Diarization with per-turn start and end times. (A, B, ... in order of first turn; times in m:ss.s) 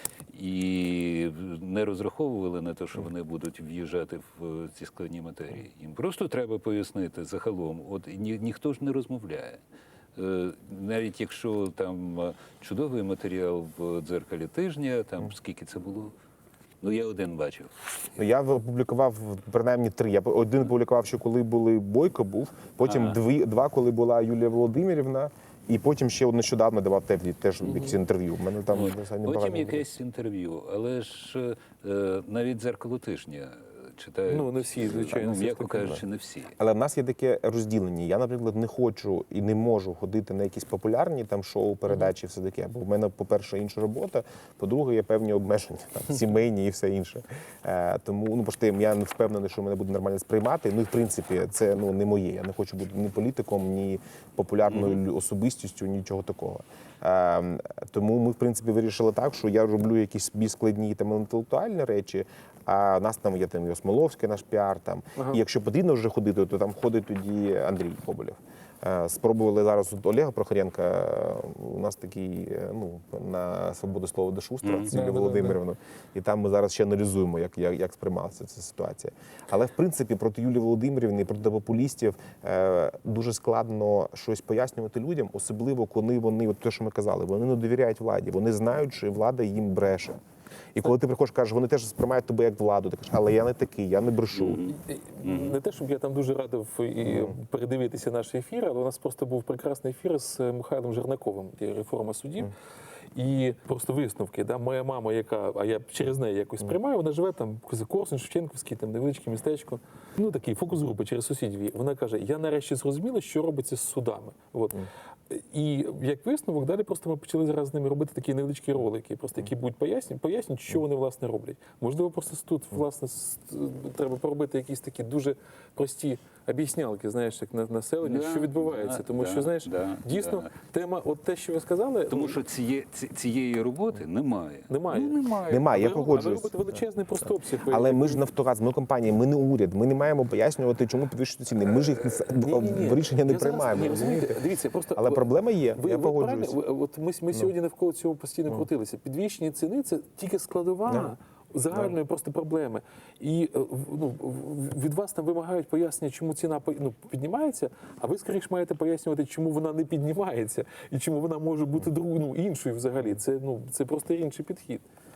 0:00.3-0:09.6 A
0:10.2-0:16.1 A
0:16.8-0:17.8 A
0:18.2-0:29.9 B
0:22.8-0:23.2 A
0:28.7-0:36.6 A
0:34.3-0:36.0 C
0:36.6-1:30.2 B
0:54.7-0:55.0 A
1:05.2-1:05.4 C
1:14.6-1:14.9 A
1:14.9-1:15.6 C
1:30.7-1:34.7 B
1:34.3-1:35.6 A
1:34.7-1:42.5 C
1:37.0-1:37.4 B
1:43.1-2:12.4 C
2:08.0-2:10.5 A
2:12.1-2:15.9 A
2:14.7-2:18.3 C
2:15.5-2:16.6 B
2:17.7-2:24.4 B
2:22.2-2:44.8 C
2:25.0-2:26.6 B
2:30.9-2:31.1 B